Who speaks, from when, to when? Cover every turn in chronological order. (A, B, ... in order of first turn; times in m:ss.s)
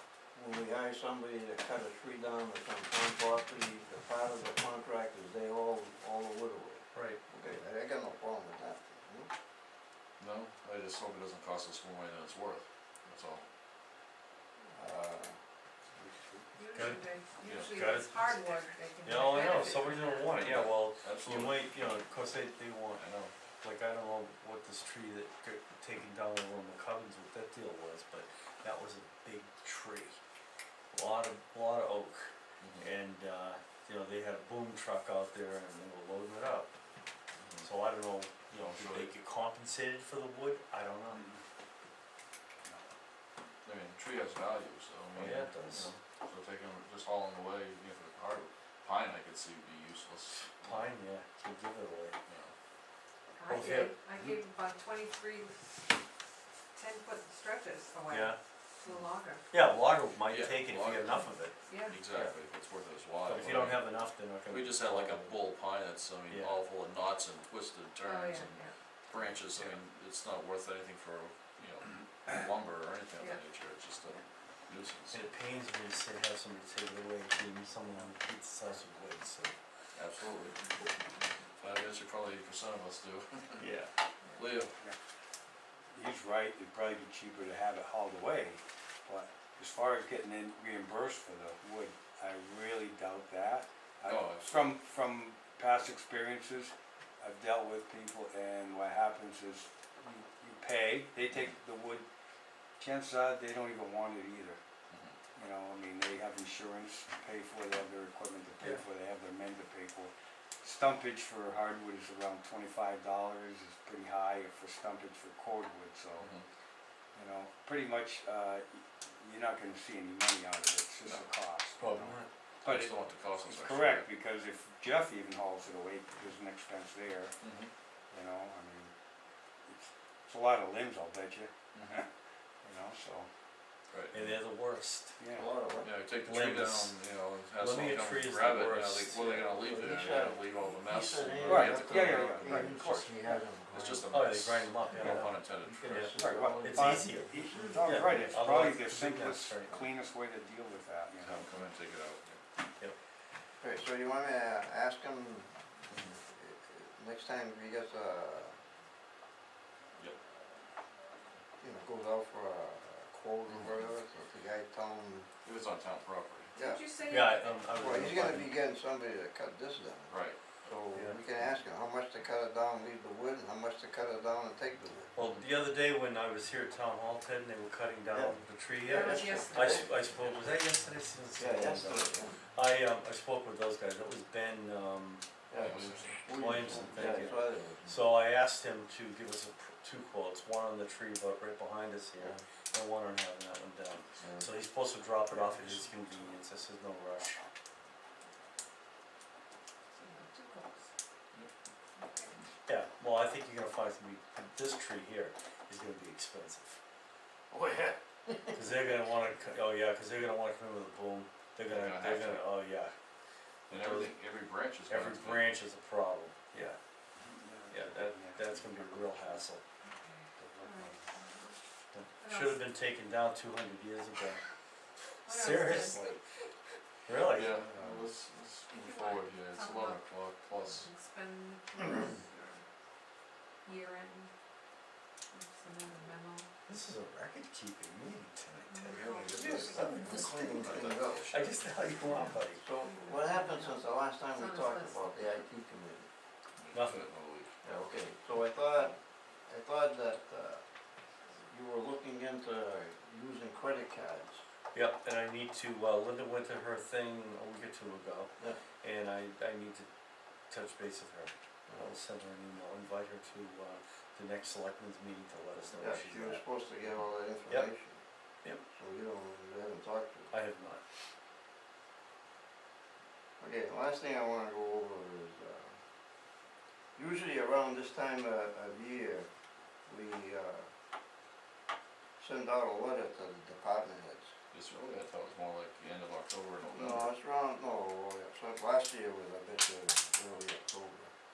0:00.4-0:09.3 A
0:06.9-0:07.2 B
0:10.2-0:13.4 C
0:14.6-0:15.4 A
0:16.0-0:16.5 A
0:16.6-0:20.2 D
0:16.7-0:17.0 B
0:17.4-0:18.7 C
0:17.7-0:18.3 B
0:19.0-0:23.1 B
0:19.7-0:21.8 C
0:23.0-0:23.3 C
0:23.6-0:30.2 B
0:30.9-0:36.7 B
0:32.6-0:32.9 C
0:37.4-0:37.7 C
0:37.6-0:41.2 B
0:38.6-0:39.1 C
0:41.1-0:41.4 E
0:43.6-0:50.9 C
0:45.2-0:46.0 B
0:50.6-0:52.2 B
0:52.3-0:52.5 C
0:53.4-0:55.9 D
0:53.5-0:54.0 B
0:56.8-0:59.5 D
0:58.1-0:58.4 B
0:59.5-1:01.6 B
1:00.3-1:15.3 C
1:01.7-1:02.0 D
1:02.1-1:02.4 B
1:03.2-1:05.4 B
1:06.3-1:06.6 B
1:08.0-1:08.7 D
1:15.1-1:19.6 B
1:20.0-1:20.6 C
1:21.6-1:23.7 C
1:23.6-1:23.9 B
1:24.4-1:24.7 C
1:25.9-1:42.1 E
1:34.0-1:34.5 C
1:42.8-1:44.6 E
1:44.9-1:45.2 C
1:45.4-1:56.3 E
1:56.2-1:56.4 C
1:57.1-2:07.4 E
2:01.8-2:02.3 B
2:02.6-2:04.1 C
2:07.4-2:07.7 C
2:08.1-2:08.9 E
2:09.7-2:12.1 E
2:11.7-2:12.0 C
2:12.6-2:13.3 E
2:13.9-2:14.2 C
2:14.1-2:15.2 B
2:15.2-2:15.5 E
2:15.3-2:15.9 A
2:15.8-2:23.0 C
2:16.2-2:17.0 B
2:17.6-2:19.6 B
2:19.2-2:24.1 A
2:21.5-2:23.1 E
2:23.7-2:26.0 C
2:24.1-2:27.3 B
2:25.6-2:28.0 A
2:26.1-2:31.5 E
2:27.8-2:29.8 B
2:31.2-2:32.4 C
2:33.6-2:35.5 A
2:35.9-2:36.2 C
2:36.2-2:38.6 A
2:41.6-2:45.3 A
2:45.4-2:46.5 C
2:46.6-2:46.8 A
2:46.6-2:47.7 D
2:47.0-2:48.6 B
2:47.7-2:55.1 A
2:50.1-2:50.4 C
2:50.9-2:51.2 B
2:55.2-3:05.2 B
2:58.1-2:59.9 A
2:58.8-2:59.9 D
3:00.2-3:00.4 C
3:01.4-3:02.4 A
3:05.5-3:08.2 A
3:05.5-3:06.4 C
3:06.3-3:17.4 B
3:06.9-3:07.2 C
3:14.2-3:14.5 A
3:20.0-3:20.9 D
3:22.0-3:22.3 D
3:22.7-3:26.8 B
3:27.5-3:27.9 C
3:28.5-3:32.9 B
3:31.7-3:32.5 C
3:33.7-3:34.2 B
3:33.7-3:35.6 C
3:34.9-3:36.8 B
3:37.2-3:39.4 E
3:37.7-3:39.6 B
3:39.8-3:41.6 D
3:40.4-3:41.0 E
3:41.9-3:44.4 B
3:42.2-3:42.7 D
3:45.2-3:46.2 D
3:45.3-3:46.2 B
3:47.1-3:47.6 B
3:47.3-3:50.9 C
3:47.4-3:48.0 A
3:48.8-3:50.1 D
3:50.7-3:52.7 D
3:53.6-3:54.3 D
3:55.3-3:56.5 D
3:56.7-4:00.4 B
3:58.7-4:00.2 D
3:58.8-4:01.8 C
3:59.8-4:01.3 A
4:01.3-4:02.6 B
4:02.6-4:06.1 A
4:02.8-4:05.4 D
4:06.6-4:08.0 C
4:06.7-4:07.1 B
4:07.6-4:10.6 A
4:11.3-4:14.4 A
4:14.7-4:19.9 B
4:20.5-4:26.4 B
4:21.7-4:22.0 A
4:25.8-4:28.0 A
4:28.7-4:30.3 A
4:30.3-4:30.8 B
4:33.4-4:35.8 A
4:37.0-4:39.3 A
4:39.9-4:40.7 A
4:42.2-4:44.3 A
4:44.5-4:47.1 C
4:46.7-4:51.1 A